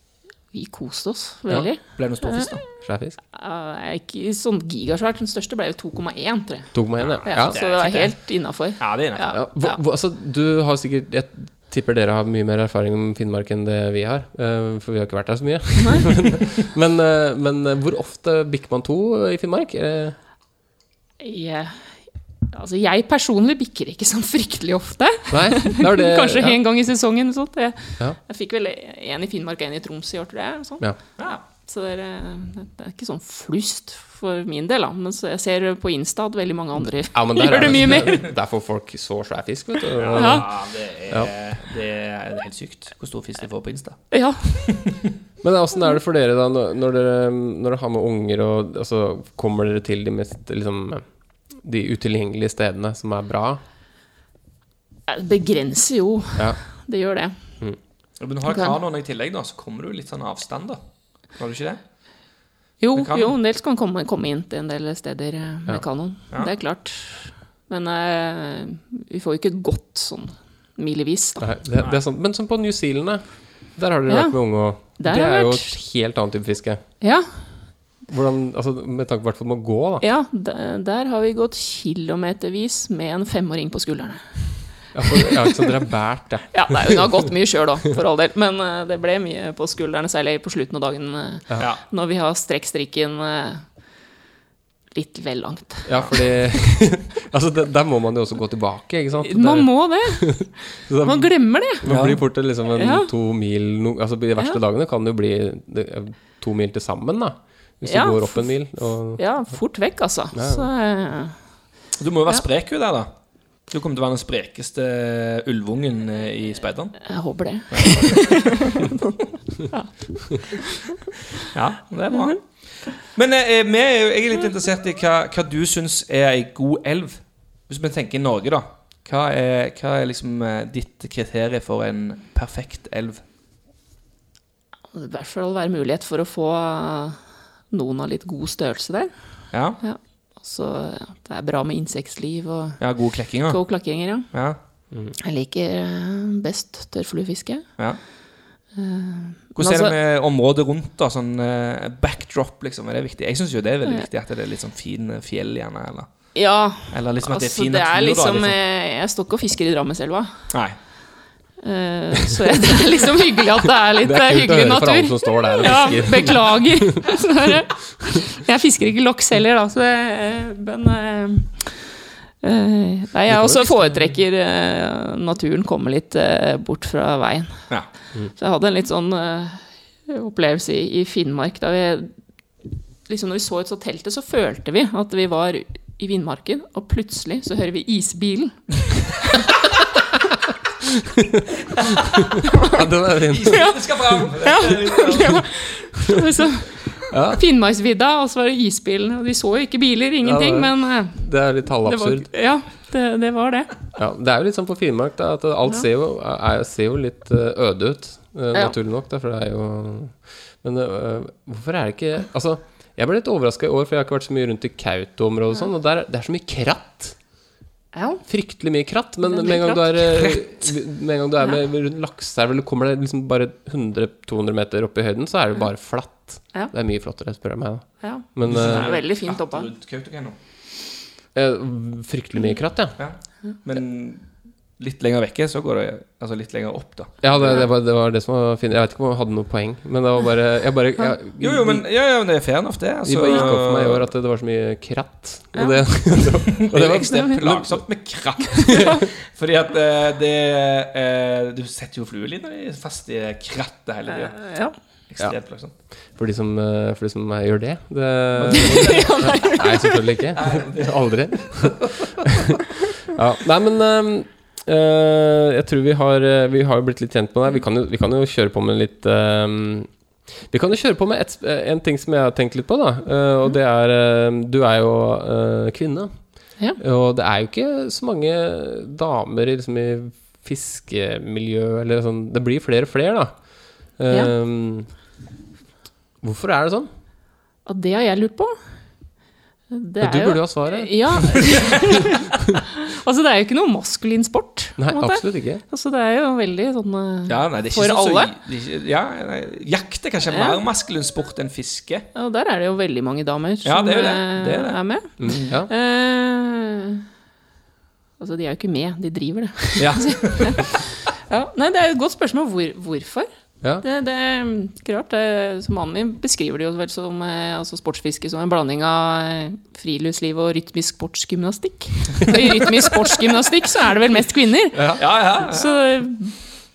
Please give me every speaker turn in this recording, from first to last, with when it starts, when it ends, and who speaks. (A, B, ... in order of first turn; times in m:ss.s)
0:00.5-0:02.6 A
0:01.9-0:02.6 B
0:02.8-0:03.2 C
0:03.3-0:09.8 A
0:06.7-0:07.6 C
0:07.0-0:09.3 B
0:09.3-0:20.2 C
0:15.8-0:16.1 A
0:21.2-0:21.9 A
0:22.5-0:38.3 A
0:25.3-0:26.6 C
0:37.1-0:40.5 C
0:40.0-0:44.0 B
0:40.1-0:40.5 A
0:44.1-0:44.7 A
0:45.4-0:53.6 C
0:55.1-0:57.4 A
0:58.2-1:00.8 B
0:58.5-0:58.8 A
1:01.4-1:01.8 B
1:02.8-1:11.5 A
1:03.0-1:03.3 B
1:11.4-1:16.8 C
1:14.1-1:15.8 A
1:17.0-1:17.3 A
1:18.1-1:20.0 C
1:20.0-1:24.3 A
1:24.9-1:27.0 C
1:26.5-1:33.7 A
1:34.9-1:36.3 A
1:35.9-1:49.2 C
1:39.2-1:41.9 A
1:41.9-1:42.2 B
1:42.8-1:43.1 A
1:47.8-1:51.4 A
1:50.3-1:50.7 C
1:52.0-1:53.1 B
1:53.7-1:57.1 B
1:57.0-2:01.0 A
1:57.7-1:58.7 B
2:01.5-2:13.2 B
2:02.1-2:02.4 A
2:14.9-2:17.2 A
2:17.7-2:19.1 A
2:19.5-2:19.8 B
2:19.8-2:24.3 A
2:22.8-2:23.6 B
2:24.3-2:24.6 B
2:25.2-2:27.7 A
2:28.8-2:30.0 A
2:29.6-2:36.1 B
2:36.4-2:40.3 A
2:36.9-2:38.6 B
2:40.5-2:40.8 B
2:41.6-2:57.8 A
2:44.0-2:47.2 C
2:53.3-2:54.1 C
2:58.4-3:02.1 A
3:03.1-3:08.6 A
3:11.2-3:11.4 C
3:11.8-3:12.2 B
3:12.2-3:14.2 C
3:13.3-3:15.4 B
3:13.5-3:21.2 A
3:17.1-3:17.4 C
3:20.2-3:22.3 C
3:21.8-3:23.8 A
3:24.0-3:37.2 C
3:37.9-3:38.2 A
3:38.3-3:48.9 C
3:39.3-3:40.1 A
3:48.0-3:49.7 A
3:48.5-3:50.4 B
3:51.4-3:53.0 C
3:53.0-3:54.3 B
3:54.8-3:57.6 B
3:57.2-4:01.8 C
4:01.4-4:04.1 B
4:03.0-4:07.8 C
4:05.6-4:06.4 A
4:06.5-4:14.4 B
4:07.0-4:07.4 A
4:08.7-4:09.0 A
4:14.1-4:14.8 A
4:15.1-4:15.7 B
4:16.2-4:29.9 C
4:18.4-4:19.4 B
4:18.5-4:20.0 A
4:20.3-4:21.8 B
4:30.5-4:36.1 C
4:36.8-4:43.4 C
4:44.0-4:44.9 C
4:46.2-4:46.9 C
4:47.7-4:48.5 A
4:49.7-4:58.3 A
4:50.0-4:51.7 C
4:54.8-4:55.6 C
4:57.3-5:02.1 B
5:00.3-5:00.6 A
5:02.2-5:07.0 A
5:03.6-5:05.5 B
5:05.2-5:05.7 C
5:08.2-5:13.3 A
5:09.8-5:10.6 B
5:13.8-5:26.4 A
5:24.8-5:25.0 C
5:25.0-5:25.8 B